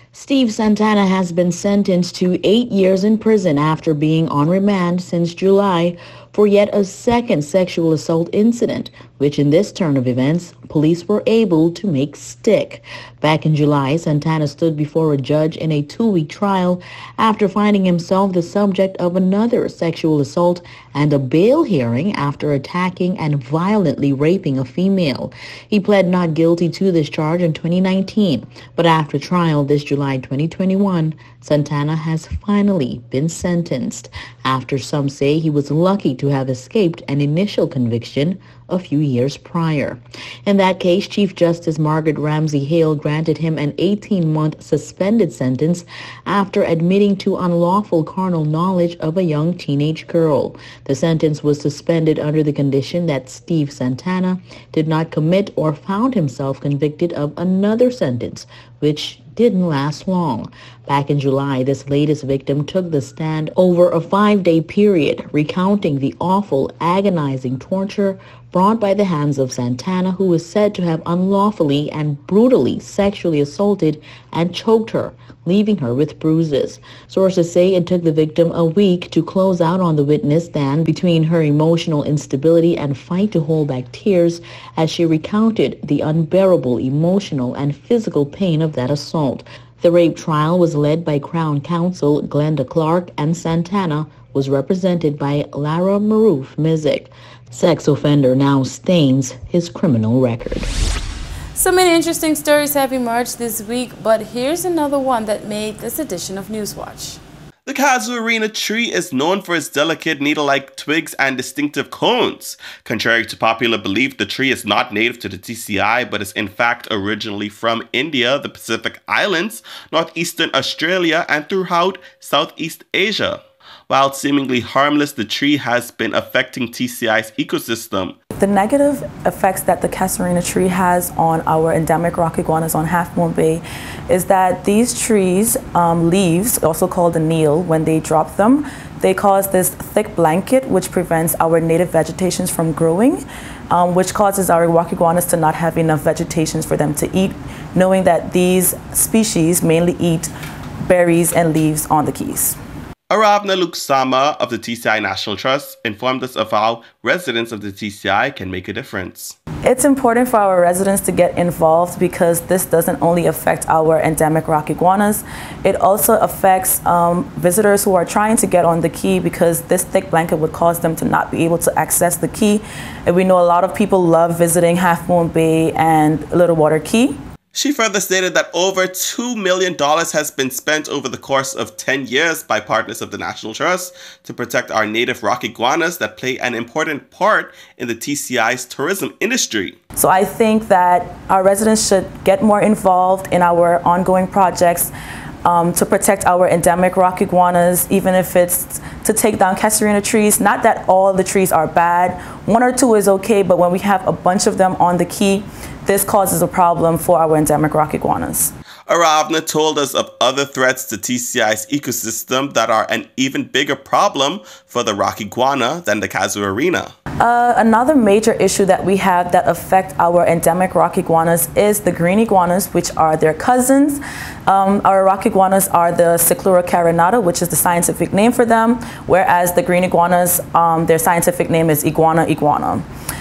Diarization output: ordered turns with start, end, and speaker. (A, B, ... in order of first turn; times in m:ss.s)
0:00.1-1:40.7 A
1:41.5-1:47.2 B
1:47.6-2:08.1 C
2:08.4-2:30.3 D
2:30.8-2:32.6 D
2:33.1-2:39.4 C
2:39.6-2:57.2 D
2:57.5-3:09.8 C
3:10.0-3:14.9 D
3:15.4-3:28.5 D
3:28.9-3:36.9 C
3:37.2-3:52.8 D